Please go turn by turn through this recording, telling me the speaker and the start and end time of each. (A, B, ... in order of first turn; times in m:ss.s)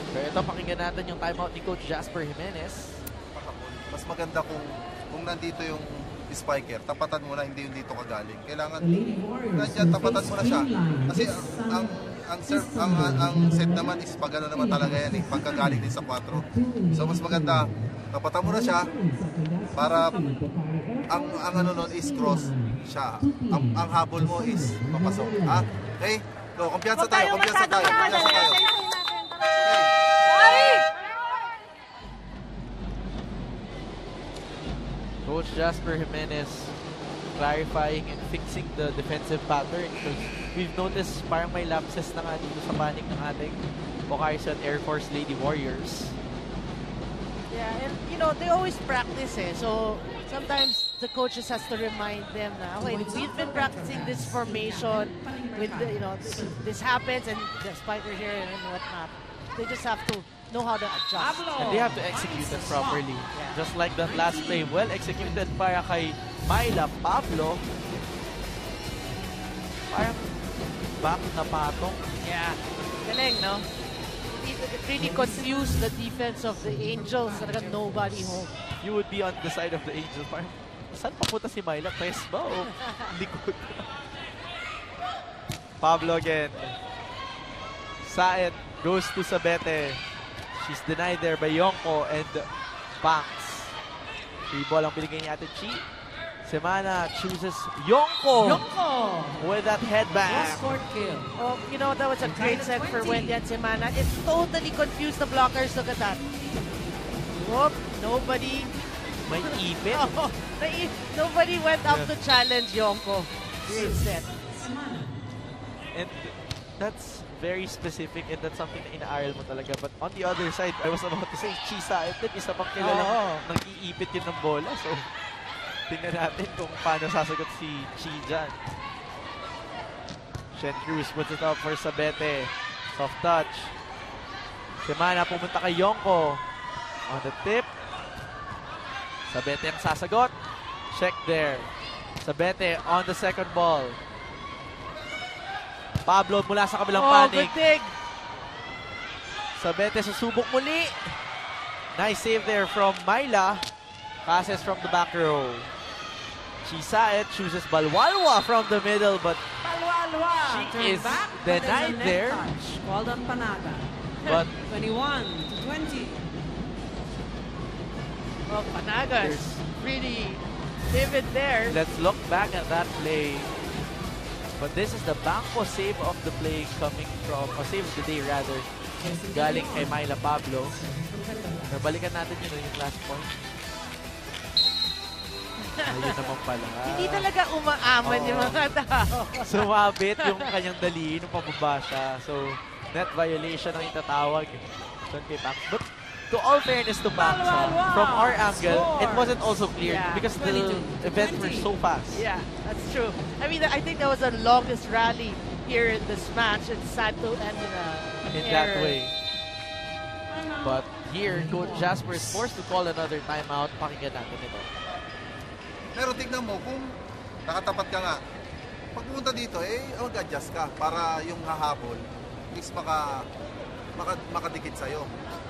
0:00.1-0:03.0 A
0:03.3-0:08.9 B
0:08.9-0:11.9 C
0:09.5-0:18.9 B
0:13.0-0:13.8 C
0:19.7-0:20.3 B
0:21.1-0:28.7 B
0:29.6-0:30.7 B
0:35.2-0:36.7 A
0:37.3-0:46.2 A
0:47.5-1:01.4 D
0:52.8-0:56.6 C
1:01.2-1:03.0 C
1:01.6-1:07.6 A
1:03.3-1:03.6 D
1:04.0-1:05.5 C
1:09.9-1:10.4 A
1:11.0-1:12.0 A
1:12.2-1:13.7 D
1:14.4-1:18.5 D
1:15.0-1:18.5 C
1:18.8-1:23.9 A
1:22.7-1:23.1 D
1:25.8-1:26.8 A
1:28.0-1:30.0 A
1:30.5-1:32.5 A
1:33.0-1:33.7 A
1:34.5-1:35.8 A
1:36.4-1:38.6 A
1:38.3-1:39.4 C
1:39.4-1:40.7 A
1:40.2-1:41.3 C
1:41.4-1:46.2 D
1:42.2-1:43.4 C
1:46.2-1:46.5 C
1:47.3-1:48.7 D
1:49.2-1:50.1 A
1:49.9-1:54.3 D
1:51.9-1:52.1 A
1:53.7-1:55.2 C
1:55.9-2:05.0 A
2:02.8-2:03.5 D
2:05.9-2:08.5 A
2:10.5-2:13.7 A
2:14.8-2:16.4 A
2:17.1-2:17.7 A
2:19.3-2:20.3 A
2:20.9-2:21.7 A
2:22.2-2:24.0 A
2:26.0-2:27.6 A
2:26.9-2:28.0 D
2:29.6-2:31.2 A
2:31.9-2:33.6 A
2:34.2-2:35.7 A
2:36.6-2:39.4 A
2:39.6-2:43.9 C
2:40.4-2:42.5 A
2:44.2-2:44.5 A
2:44.6-2:46.2 C
2:48.5-2:51.8 D
2:49.2-2:49.6 A
2:51.7-2:53.5 A
2:54.6-2:58.7 A
2:59.0-3:00.0 C
2:59.3-3:00.8 A
3:00.7-3:01.8 C
3:01.7-3:03.4 A
3:05.6-3:06.3 D
3:05.8-3:07.3 A
3:06.8-3:09.7 D
3:08.0-3:08.6 A
3:09.4-3:22.2 A
3:17.1-3:19.7 C
3:19.8-3:20.3 D
3:20.3-3:21.7 C
3:22.1-3:29.0 D
3:28.3-3:29.1 A
3:30.3-3:32.4 C
3:30.6-3:34.7 A
3:35.9-3:36.8 B
3:37.5-3:38.2 B
3:38.9-3:42.0 B
3:42.5-3:43.0 B
3:44.0-3:45.1 B